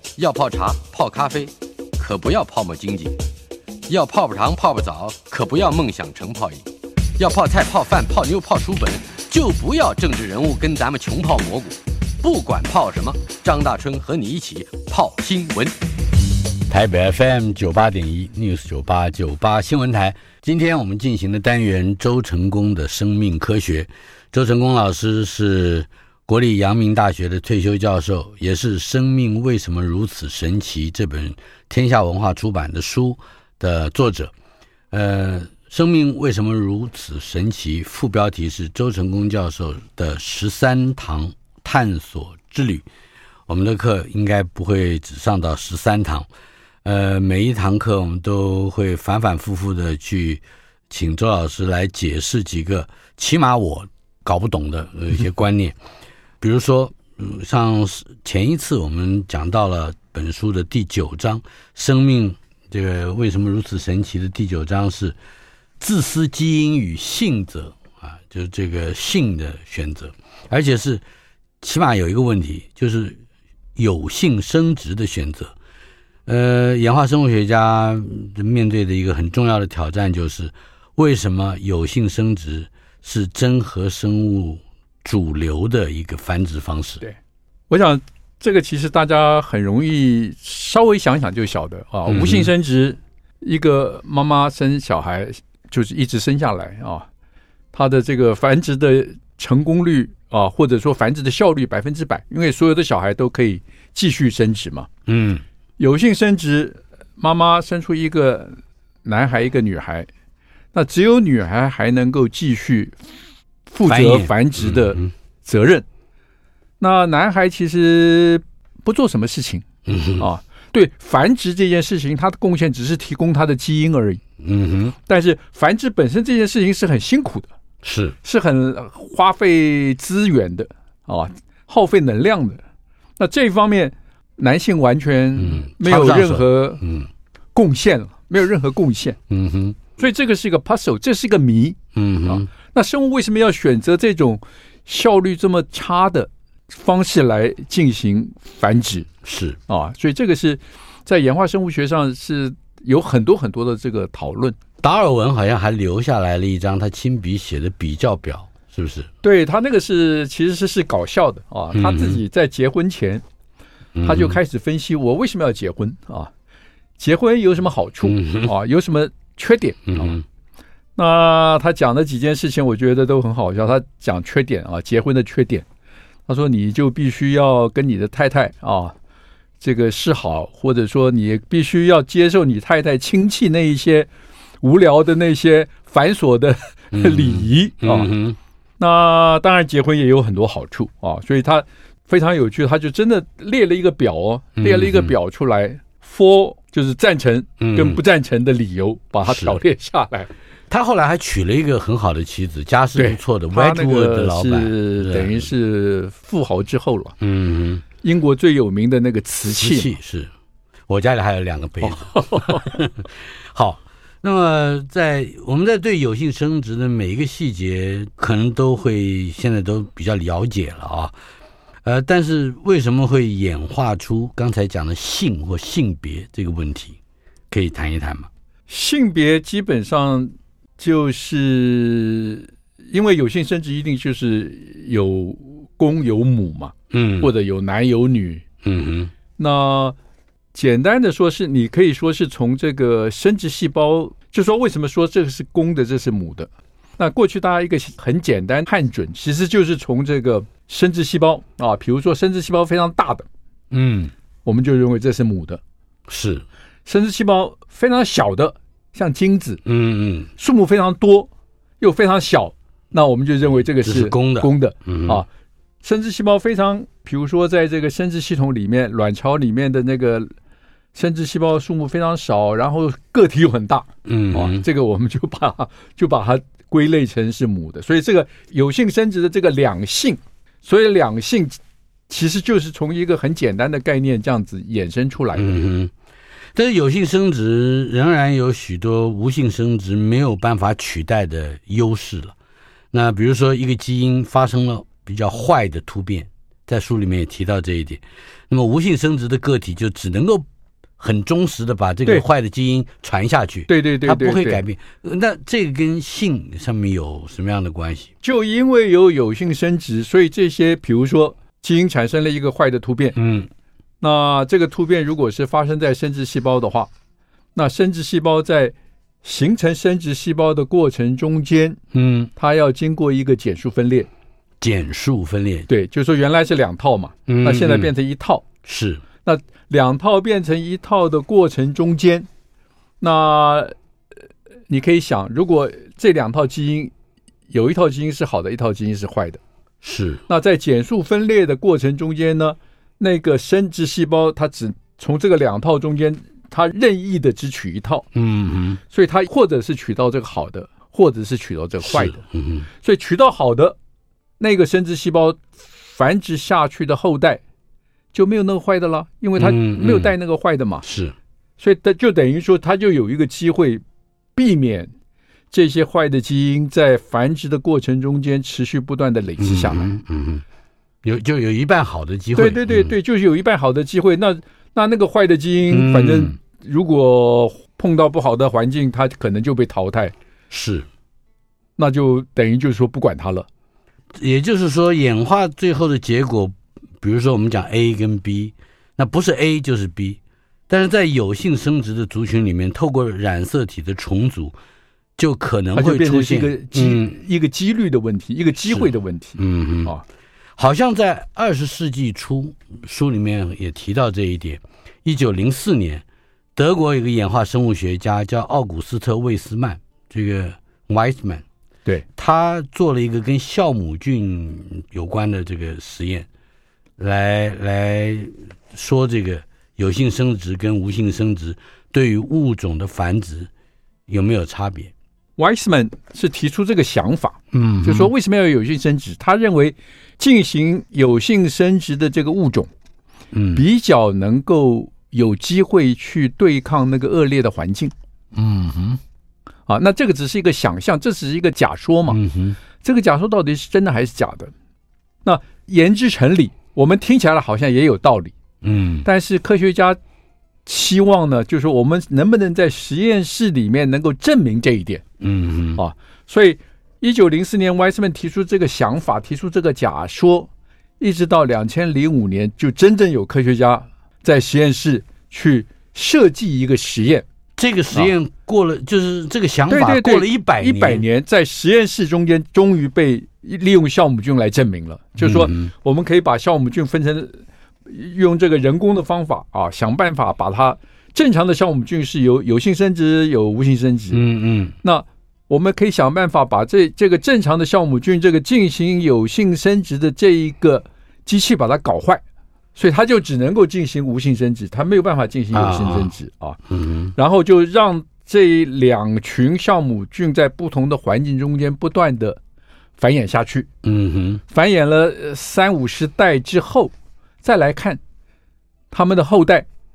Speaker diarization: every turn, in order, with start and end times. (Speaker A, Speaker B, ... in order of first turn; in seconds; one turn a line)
Speaker A: 0.2-3.1
Speaker A: 3.9-6.6
Speaker A: 7.2-15.7
Speaker B: 16.7-34.3
Speaker B: 34.9-42.8
Speaker B: 43.5-46.3
Speaker B: 46.8-55.8
Speaker B: 56.4-65.2
Speaker B: 65.8-71.0
Speaker B: 71.6-73.2
Speaker B: 73.8-75.5
Speaker B: 76.2-87.0
Speaker C: 87.7-97.0
Speaker B: 92.1-92.5
Speaker C: 97.7-104.9
Speaker B: 105.1-105.4
Speaker C: 105.8-110.1
Speaker C: 110.7-113.0
Speaker C: 113.7-115.8
Speaker B: 113.8-115.1
Speaker C: 116.8-119.6
Speaker B: 119.8-120.2
Speaker C: 120.2-124.2
Speaker B: 124.4-125.0
Speaker C: 125.0-127.5
Speaker B: 127.8-128.2
Speaker C: 128.2-132.6
Speaker C: 133.2-136.8
Speaker B: 135.4-137.1
Speaker C: 137.5-139.2
Speaker B: 139.3-139.8
Speaker C: 140.0-149.1
Speaker B: 141.9-142.4
Speaker B: 149.2-149.6
Speaker C: 149.7-154.6
Speaker B: 154.8-159.1
Speaker C: 159.2-163.2
Speaker B: 161.7-162.2
Speaker B: 163.9-164.4
Speaker C: 164.0-166.3
Speaker C: 167.0-170.2
Speaker B: 168.0-168.5
Speaker B: 169.9-170.2
Speaker C: 170.9-175.6
Speaker C: 176.3-178.9
Speaker C: 179.6-184.1
Speaker C: 184.6-188.1
Speaker B: 186.9-188.4
Speaker C: 188.8-200.3
Speaker B: 194.6-195.1
Speaker B: 197.6-198.0
Speaker B: 199.2-199.6
Speaker B: 200.7-205.5
Speaker C: 202.9-207.1
Speaker B: 207.2-207.8
Speaker C: 208.0-209.9
Speaker B: 209.6-210.3
Speaker B: 210.9-221.1
Speaker C: 211.8-212.8
Speaker B: 221.8-226.9
Speaker B: 227.5-228.3
Speaker C: 228.7-238.4
Speaker B: 236.9-237.3
Speaker B: 238.6-239.1
Speaker C: 239.4-239.9
Speaker C: 240.5-253.2
Speaker B: 253.7-254.1
Speaker C: 254.4-255.6
Speaker B: 256.1-256.4
Speaker C: 256.9-259.6
Speaker B: 259.6-260.3
Speaker C: 260.4-265.3
Speaker B: 263.8-265.2
Speaker C: 265.8-270.3
Speaker C: 270.9-285.5
Speaker B: 274.0-274.6
Speaker B: 285.4-285.9
Speaker B: 286.5-292.3
Speaker B: 292.9-300.4
Speaker B: 301.0-308.1
Speaker C: 303.7-304.6
Speaker C: 308.2-313.1
Speaker B: 313.1-313.5
Speaker C: 314.0-316.9
Speaker C: 317.5-321.8
Speaker B: 321.9-322.3
Speaker C: 322.4-324.1
Speaker B: 324.6-325.7
Speaker C: 325.7-328.4
Speaker B: 327.3-327.9
Speaker B: 328.6-329.0
Speaker C: 329.2-332.3
Speaker C: 333.0-333.7
Speaker C: 334.7-336.9
Speaker C: 337.5-339.4
Speaker B: 339.8-340.2
Speaker C: 340.3-348.1
Speaker B: 348.1-348.8
Speaker C: 348.9-352.2
Speaker B: 351.8-352.7
Speaker C: 352.8-353.8
Speaker C: 354.4-357.4
Speaker C: 358.1-360.9
Speaker B: 359.4-360.1
Speaker B: 360.8-361.1
Speaker C: 361.6-363.8
Speaker C: 364.4-364.9
Speaker C: 365.5-369.9
Speaker B: 369.4-370.4
Speaker B: 371.0-372.9
Speaker C: 372.3-380.1
Speaker B: 375.7-376.4
Speaker B: 380.5-380.9
Speaker C: 381.8-383.5
Speaker B: 384.2-394.5
Speaker B: 395.2-397.1
Speaker C: 395.7-400.0
Speaker B: 398.7-399.9
Speaker B: 400.6-406.0
Speaker B: 406.6-411.4
Speaker B: 412.1-416.3
Speaker B: 417.0-423.5
Speaker B: 424.1-424.9
Speaker C: 425.4-432.7
Speaker B: 427.5-428.1
Speaker B: 433.3-433.6
Speaker C: 433.5-437.9
Speaker B: 438.3-439.0
Speaker C: 439.7-442.2
Speaker B: 442.1-442.6
Speaker C: 442.8-444.5
Speaker C: 445.2-448.3
Speaker B: 448.6-449.1
Speaker C: 449.0-450.0
Speaker C: 450.6-455.0
Speaker B: 455.2-455.8
Speaker C: 455.8-460.5
Speaker C: 461.0-467.2
Speaker B: 467.6-471.0
Speaker C: 469.7-484.2
Speaker B: 475.2-475.7
Speaker B: 484.1-484.8
Speaker C: 484.8-492.2
Speaker C: 492.8-496.6
Speaker B: 495.5-496.1
Speaker B: 496.7-497.1
Speaker C: 497.1-502.4
Speaker C: 503.0-503.7
Speaker B: 503.8-504.4
Speaker C: 504.5-506.9
Speaker C: 507.4-508.0
Speaker C: 508.9-509.6